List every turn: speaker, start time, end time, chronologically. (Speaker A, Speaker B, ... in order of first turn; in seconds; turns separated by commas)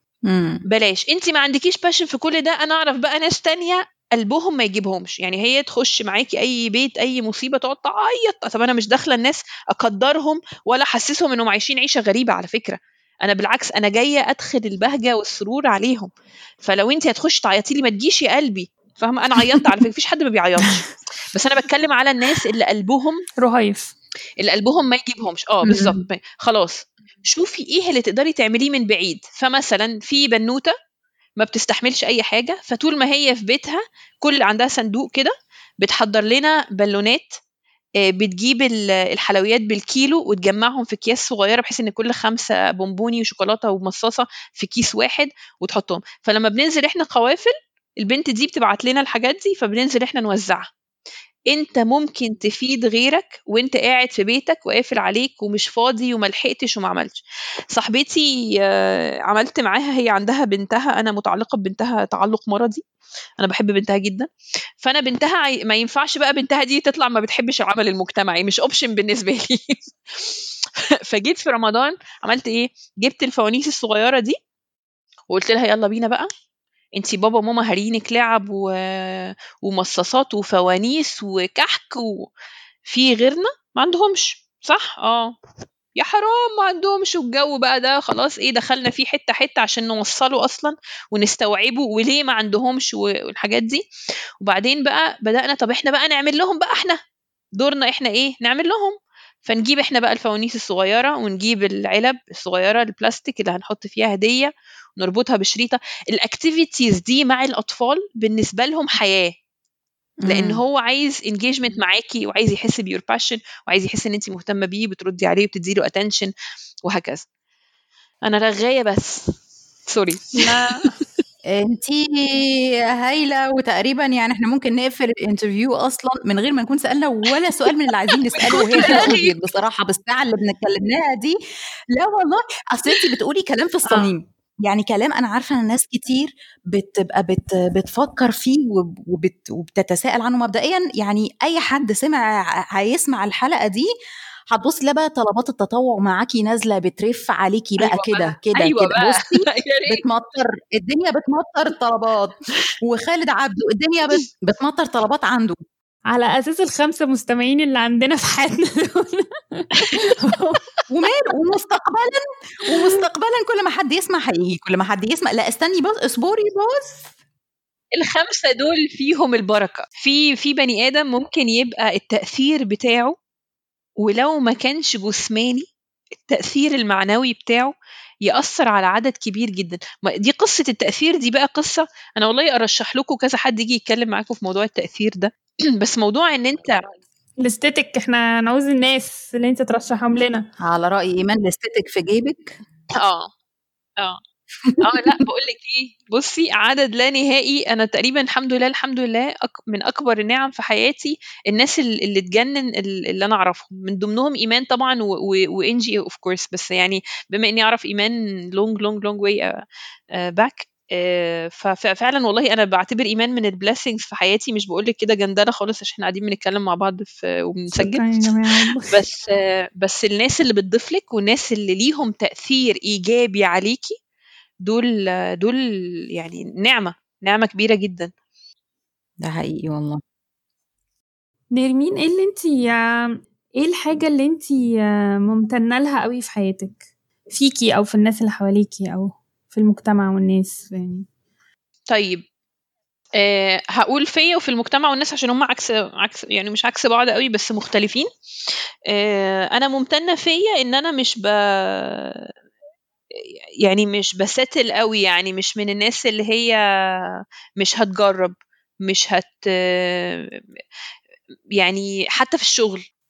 Speaker A: 0.3-0.6, Speaker B: 0.7-16.1, Speaker B: 16.6-23.2, Speaker C: 23.4-23.9, Speaker B: 24.4-30.7, Speaker A: 25.6-26.0, Speaker B: 31.4-37.4, Speaker B: 38.0-50.7, Speaker B: 51.5-57.2, Speaker B: 57.7-62.8, Speaker B: 63.4-64.3, Speaker B: 64.8-74.4, Speaker B: 75.3-76.3, Speaker B: 77.0-82.3, Speaker B: 82.9-85.3, Speaker B: 86.0-93.8, Speaker B: 94.4-97.0, Speaker B: 97.6-109.3, Speaker A: 110.2-110.6, Speaker B: 110.3-116.3, Speaker B: 116.9-117.3, Speaker B: 118.2-119.3, Speaker B: 119.9-120.7, Speaker C: 120.4-120.8, Speaker A: 121.5-131.4, Speaker B: 128.4-129.4, Speaker A: 131.9-143.9, Speaker A: 144.5-155.6, Speaker B: 147.8-150.0, Speaker C: 156.1-159.9, Speaker B: 159.8-160.1, Speaker A: 160.9-167.1, Speaker B: 167.9-173.1, Speaker B: 174.0-175.7, Speaker B: 176.2-177.7, Speaker B: 178.2-186.9, Speaker C: 187.4-190.4, Speaker A: 190.6-192.6, Speaker B: 193.0-193.3, Speaker A: 194.6-195.2, Speaker B: 194.8-209.5, Speaker B: 210.2-223.9, Speaker C: 217.7-219.0, Speaker B: 224.7-228.1, Speaker A: 229.2-230.0, Speaker C: 231.5-236.8, Speaker C: 237.3-241.1, Speaker B: 241.9-242.2, Speaker B: 243.2-248.1, Speaker B: 248.9-252.3, Speaker B: 253.2-260.4, Speaker B: 261.6-262.8